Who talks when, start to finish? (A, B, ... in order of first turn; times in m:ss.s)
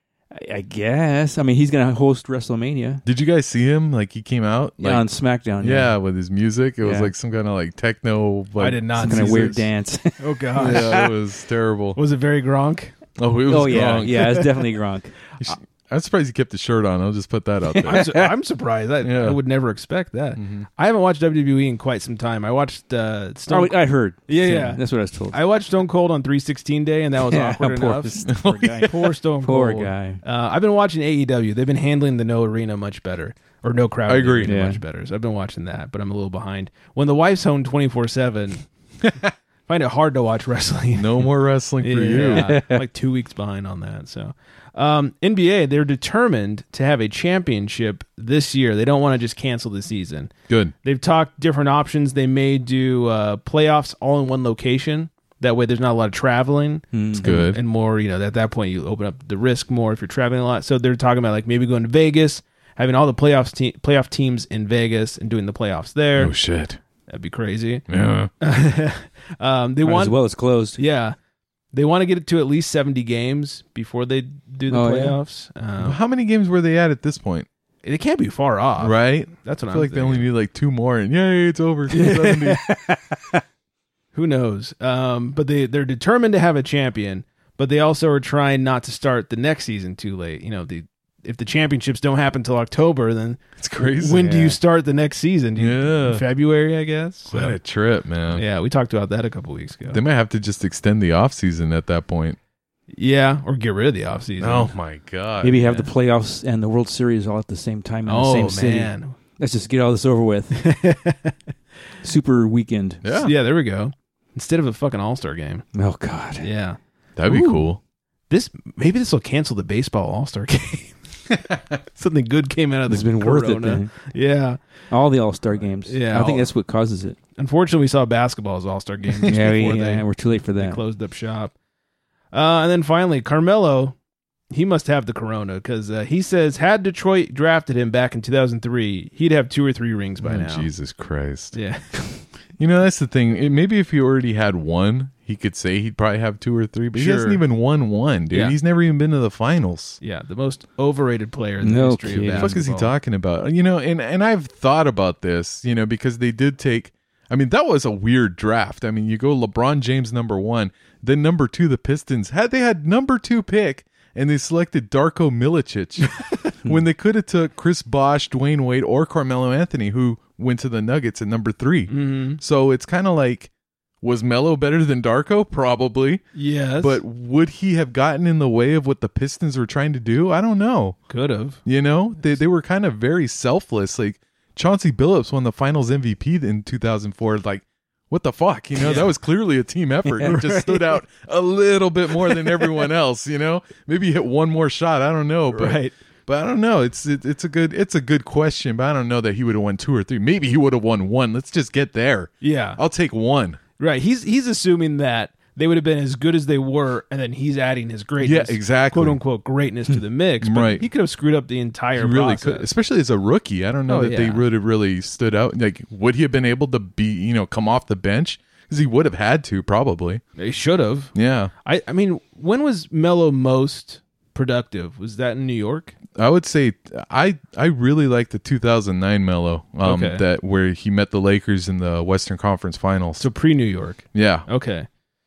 0:00.3-0:03.0 A
0:03.0-0:05.1 B
0:04.8-0:06.0 A
0:05.6-0:09.5 B
0:06.8-0:07.1 A
0:08.6-0:09.7 C
0:09.0-0:11.1 A
0:10.2-0:11.1 C
0:10.6-0:12.0 B
0:12.0-0:14.6 C
0:13.2-0:14.4 B
0:13.5-0:15.1 A
0:15.4-0:18.1 B
0:17.8-0:28.2 C
0:19.0-0:19.4 B
0:20.4-0:20.7 B
0:23.5-0:25.4 A
0:27.3-0:30.2 A
0:28.3-0:29.2 B
0:28.9-0:38.7 C
0:34.1-0:34.5 B
0:34.4-0:34.8 A
0:39.7-0:41.3 C
0:41.0-0:42.5 B
0:41.8-0:50.3 C
0:42.2-0:42.8 A
0:50.5-0:50.7 B
0:50.8-1:06.3 C
0:56.9-0:57.3 A
0:57.2-0:57.6 B
1:06.2-1:06.8 B
1:07.1-1:07.9 C
1:07.9-1:08.3 B
1:08.4-1:10.2 C
1:09.8-1:10.8 A
1:10.8-1:11.2 C
1:11.7-1:16.0 C
1:14.7-1:15.2 A
1:15.8-1:17.5 B
1:17.8-1:20.3 C
1:18.8-1:22.6 B
1:22.0-1:22.6 C
1:24.1-1:37.6 C
1:33.6-1:34.6 B
1:35.6-1:36.2 B
1:37.3-1:38.4 B
1:38.3-1:40.0 C
1:39.9-1:42.4 B
1:42.9-1:44.7 C
1:44.4-1:45.8 B
1:45.4-1:50.6 A
1:48.1-1:49.2 C
1:50.6-1:51.3 C
1:52.0-1:53.0 A
1:53.0-1:53.3 B
1:53.2-1:55.7 C
1:55.7-1:56.5 A
1:56.4-1:57.6 C
1:57.2-1:57.8 B
1:58.3-2:01.0 C
2:01.9-2:04.6 C
2:02.9-2:04.0 A
2:04.9-2:07.2 A
2:05.8-2:06.5 C
2:07.4-2:11.5 C
2:09.3-2:10.8 A
2:12.3-2:14.0 C
2:14.5-2:20.7 C
2:20.2-2:21.6 B
2:21.5-2:22.2 C
2:22.6-2:30.0 B
2:27.0-2:27.4 C
2:28.3-2:28.6 C
2:30.0-2:32.9 C
2:31.6-2:32.6 A
2:32.4-2:53.5 B
2:51.9-2:52.4 C
2:54.0-2:56.2 B
2:56.4-2:57.0 C
2:56.8-3:01.0 B
3:01.1-3:01.6 C
3:01.6-3:23.6 B
3:08.8-3:09.1 C
3:10.1-3:10.3 A
3:10.2-3:11.0 C
3:12.3-3:12.7 C
3:15.5-3:15.9 C
3:22.4-3:22.8 C
3:23.8-3:32.7 C
3:28.2-3:29.2 B
3:30.4-3:30.9 B
3:32.0-3:40.2 B
3:33.9-3:34.4 C
3:40.4-3:46.0 C
3:41.2-3:41.5 B
3:46.2-3:53.2 B
3:49.8-3:50.2 C
3:53.2-3:54.9 C
3:54.1-3:54.5 B